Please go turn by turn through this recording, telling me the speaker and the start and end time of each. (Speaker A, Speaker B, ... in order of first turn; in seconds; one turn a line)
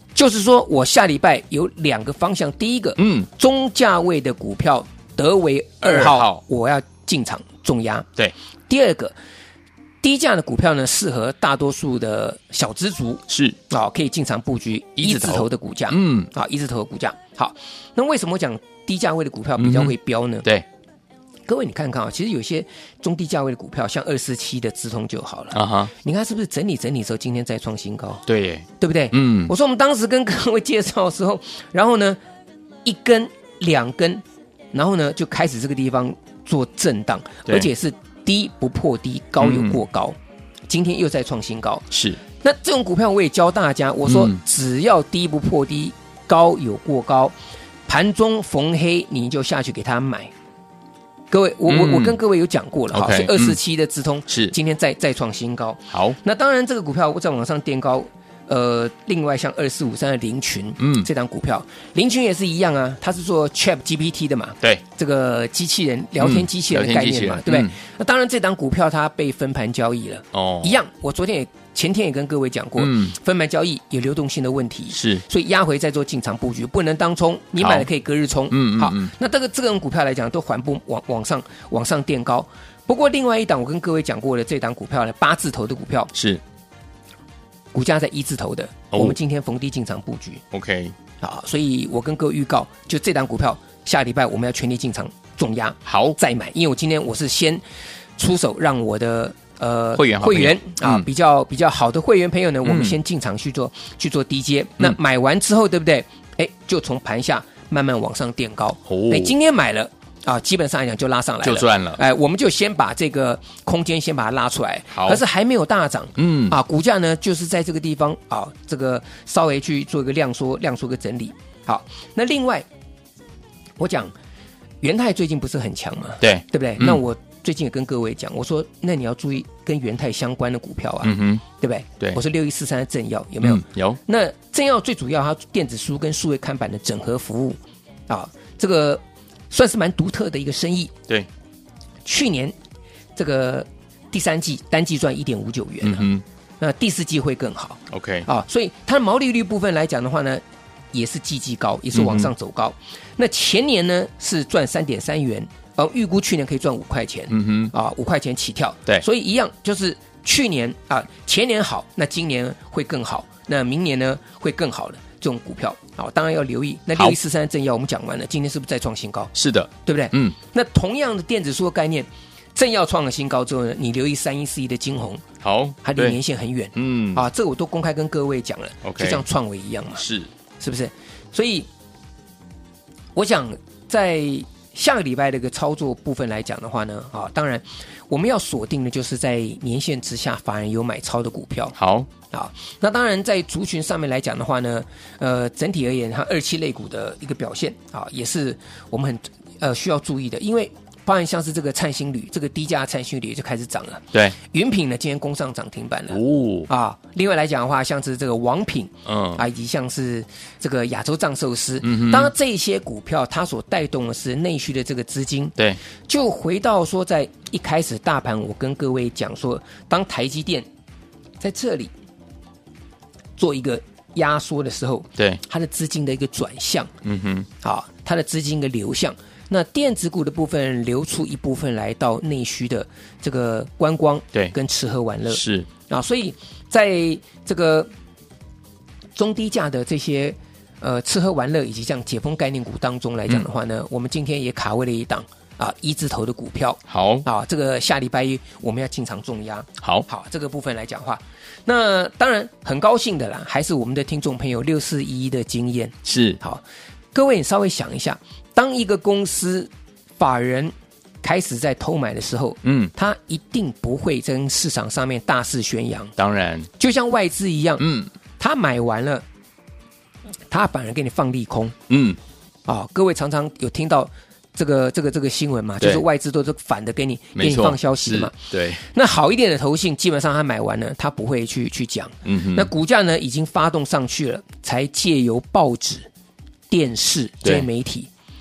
Speaker A: 0.1-8.1
Speaker B: 3.0-3.3
Speaker B: 5.8-6.4
Speaker A: 8.7-9.1
Speaker A: 10.0-20.5
Speaker B: 13.3-13.6
Speaker B: 15.0-16.3
Speaker B: 19.6-20.6
Speaker A: 21.5-28.2
Speaker B: 25.5-25.9
Speaker B: 28.3-29.5
Speaker A: 28.8-32.2
Speaker A: 32.9-40.2
Speaker B: 39.4-39.8
Speaker A: 40.7-47.4
Speaker B: 41.9-42.2
Speaker B: 44.1-44.4
Speaker A: 47.9-50.3
Speaker A: 51.3-86.1
Speaker B: 51.7-52.2
Speaker B: 52.9-53.6
Speaker B: 54.3-54.5
Speaker B: 55.9-56.2
Speaker B: 60.8-61.1
Speaker B: 66.2-67.7
Speaker B: 70.3-70.8
Speaker B: 72.8-73.1
Speaker B: 74.9-75.2
Speaker B: 77.6-77.9
Speaker B: 78.5-79.1
Speaker B: 86.1-86.4
Speaker A: 87.7-90.4
Speaker B: 88.9-89.2
Speaker B: 90.5-91.0
Speaker A: 91.2-97.6
Speaker B: 95.9-96.2
Speaker A: 98.2-122.7
Speaker B: 100.0-101.1
Speaker B: 102.7-103.0
Speaker B: 108.9-109.3
Speaker B: 111.4-112.0
Speaker B: 114.9-115.2
Speaker B: 116.2-116.6
Speaker A: 123.8-124.1
Speaker A: 124.8-140.9
Speaker B: 126.2-127.0
Speaker B: 131.0-131.4
Speaker B: 133.4-134.0
Speaker A: 142.1-142.6
Speaker A: 143.2-146.1
Speaker B: 145.8-146.2
Speaker A: 146.6-150.4
Speaker B: 147.9-148.3
Speaker A: 150.9-169.3
Speaker B: 151.9-152.3
Speaker B: 157.3-157.7
Speaker B: 169.4-170.3
Speaker A: 169.8-175.2
Speaker B: 175.4-176.2
Speaker A: 175.8-180.0
Speaker B: 176.8-177.2
Speaker B: 178.8-179.2
Speaker B: 180.0-180.3
Speaker A: 180.6-181.7
Speaker A: 183.2-191.8
Speaker B: 191.8-192.1
Speaker A: 192.3-215.6
Speaker B: 206.1-206.7
Speaker B: 209.1-209.4
Speaker B: 211.8-212.3
Speaker A: 216.1-220.7
Speaker A: 221.4-221.9
Speaker A: 223.4-226.9
Speaker B: 227.0-227.5
Speaker A: 227.6-237.9
Speaker B: 235.3-235.7
Speaker A: 239.2-266.1
Speaker B: 246.9-247.3
Speaker B: 249.8-250.1
Speaker B: 256.1-256.4
Speaker B: 262.6-262.9
Speaker B: 266.2-266.7
Speaker A: 266.8-267.9
Speaker B: 267.8-268.1
Speaker A: 268.4-269.2
Speaker A: 270.5-271.8
Speaker B: 271.9-272.2
Speaker A: 272.7-286.1
Speaker B: 277.4-278.8
Speaker B: 282.2-282.7
Speaker A: 286.7-288.1